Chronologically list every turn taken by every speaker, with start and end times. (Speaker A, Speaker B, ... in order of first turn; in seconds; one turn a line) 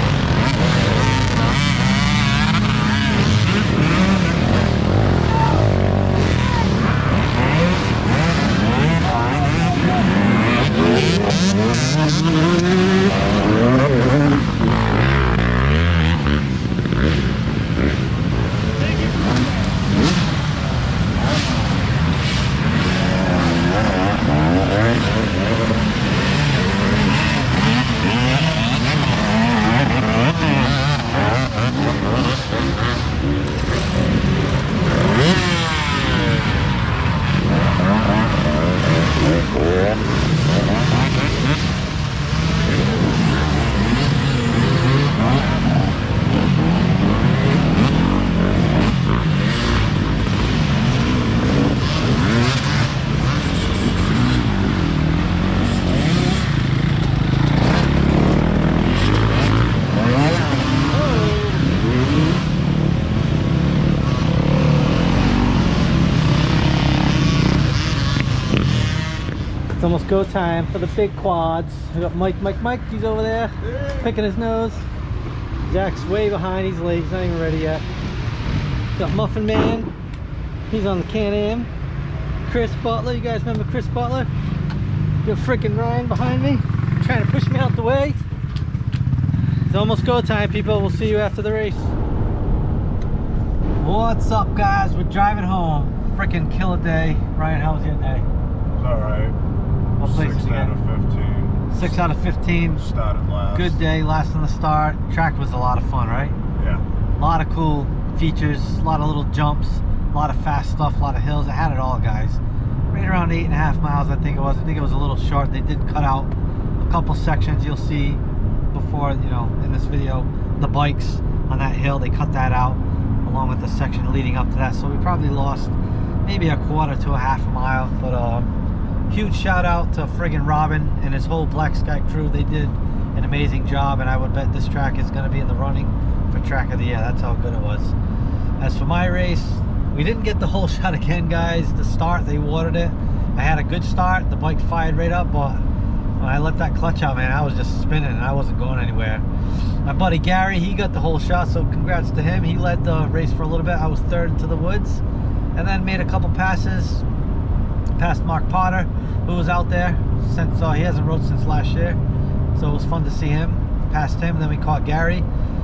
Speaker A: 60.9-61.7
Speaker A: 69.7-74.9
Speaker A: 75.7-77.9
Speaker A: 79.0-79.9
Speaker A: 80.7-81.7
Speaker A: 82.5-84.3
Speaker A: 85.2-88.2
Speaker A: 89.7-92.0
Speaker A: 93.8-98.3
Speaker B: 98.7-99.4
Speaker A: 100.0-100.8
Speaker B: 100.2-101.7
Speaker A: 101.7-102.9
Speaker B: 102.9-103.7
Speaker A: 103.5-106.4
Speaker B: 106.6-106.8
Speaker A: 107.2-112.4
Speaker A: 112.9-128.5
Speaker A: 129.1-138.0
Speaker A: 138.6-145.7
Speaker A: 146.2-149.3
Speaker A: 149.8-155.0
Speaker A: 155.6-157.1
Speaker A: 158.0-162.0
Speaker A: 162.5-165.3